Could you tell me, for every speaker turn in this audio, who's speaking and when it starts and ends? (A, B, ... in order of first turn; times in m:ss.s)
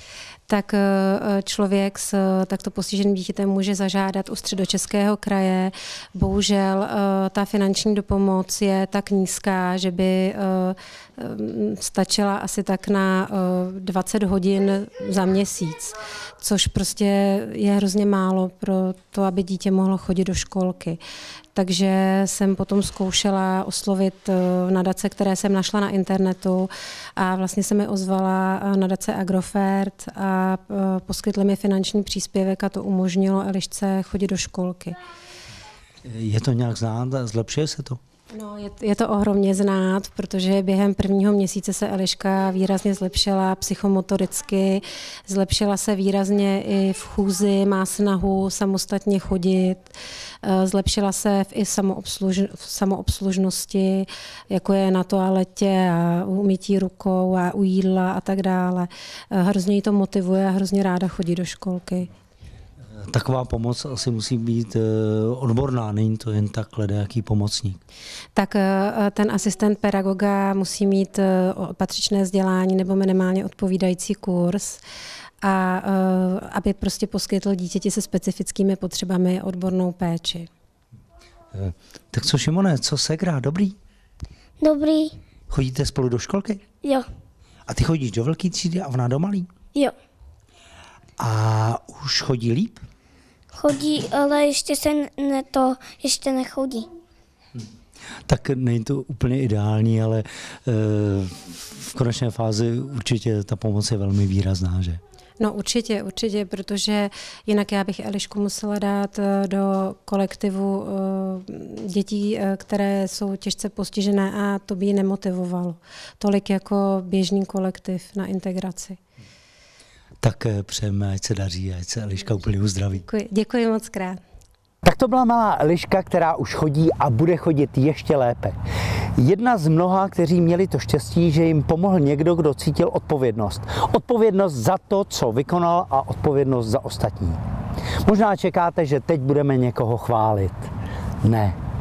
0:00.5-0:21.0 A
0:21.5-0:35.0 A
0:36.0-0:38.0 B
0:38.3-0:49.8 A
0:50.4-1:02.1 A
1:03.0-1:07.8 B
1:08.3-1:14.8 A
1:15.4-1:20.5 A
1:21.5-1:23.8 B
1:24.6-1:25.2 C
1:25.5-1:26.6 B
1:27.7-1:29.5 B
1:31.2-1:32.8 B
1:33.5-1:36.9 C
1:38.3-1:45.0 B
1:45.4-1:59.0 A
2:00.2-2:03.0 B
2:03.0-2:04.2 A
2:04.8-2:08.6 B
2:09.2-2:17.4 B
2:17.9-2:20.7 B
2:21.2-2:21.6 B